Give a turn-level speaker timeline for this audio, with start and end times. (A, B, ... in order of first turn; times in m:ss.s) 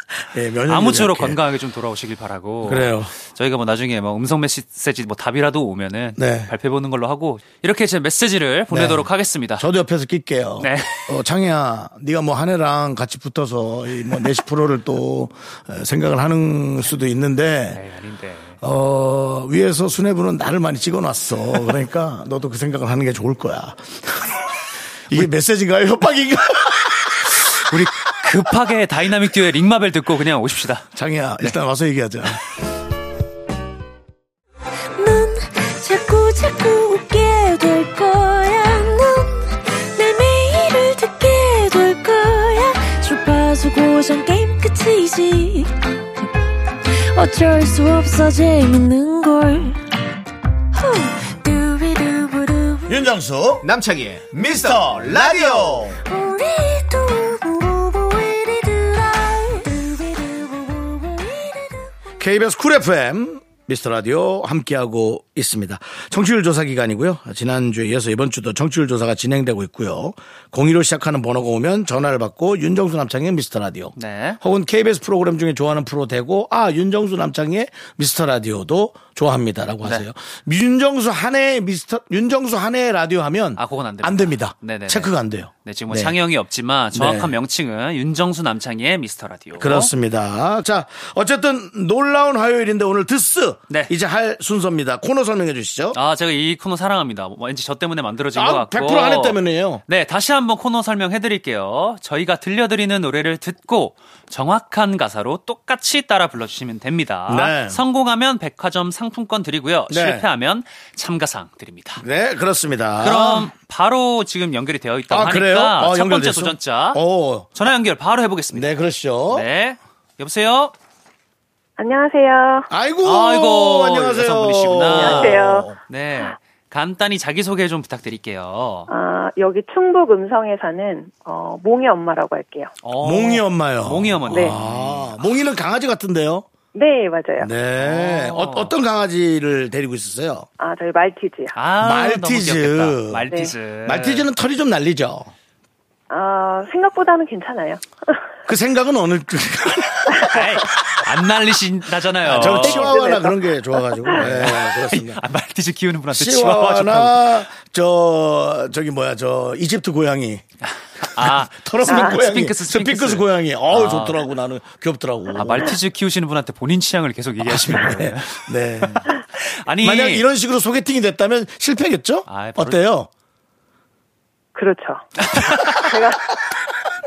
0:00.3-0:01.4 A
0:00.7-0:09.6 B
0:02.6-0:03.1 A
0:06.2-0:06.5 A
0:08.7-0:17.8 A
0:10.6-0:11.1 B
0:17.7-0:18.6 B
0:18.6-0:24.5 A
0:25.1-0:27.4 A
0:27.2-0:30.9 B
0:31.0-0:32.4 A
0:35.0-0:45.7 C
0:46.9-0:49.8 C
0:50.7-0:53.0 C
0:52.9-0:53.7 A
0:53.6-0:56.0 D
0:54.6-0:55.9 A
0:56.1-1:01.9 C
1:02.2-1:26.2 A
1:14.0-1:14.4 B
1:23.6-1:25.1 B
1:25.6-1:29.9 B
1:26.9-1:27.3 A
1:29.6-1:36.0 A
1:35.9-1:52.0 B
1:38.4-1:39.8 A
1:47.3-1:47.8 A
1:49.9-1:50.2 A
1:52.0-1:53.5 A
1:53.0-1:57.0 B
1:55.1-1:57.5 A
1:57.6-1:58.7 B
1:58.5-1:59.5 A
1:59.3-2:00.7 B
2:01.8-2:02.7 E
2:02.7-2:05.8 A
2:03.0-2:08.9 B
2:05.0-2:05.7 E
2:08.9-2:12.7 E
2:12.8-2:15.2 B
2:13.0-2:16.5 A
2:14.3-2:14.6 E
2:16.7-2:17.5 E
2:17.4-2:20.5 A
2:17.8-2:18.7 B
2:20.6-2:21.5 E
2:21.6-2:24.3 B
2:21.8-2:23.3 A
2:23.8-2:25.3 A
2:26.1-2:27.8 E
2:28.5-2:31.0 A
2:30.3-2:33.0 B
2:32.2-2:35.2 A
2:32.4-2:34.2 E
2:34.1-2:37.4 B
2:36.1-2:40.4 A
2:41.0-2:44.2 B
2:41.2-2:45.8 A
2:41.9-2:42.2 E
2:45.4-2:50.2 B
2:47.4-2:49.1 A
2:49.8-2:53.1 A
2:52.3-2:52.8 B
2:54.6-2:55.1 E
2:55.2-2:55.8 B
2:55.7-2:56.2 E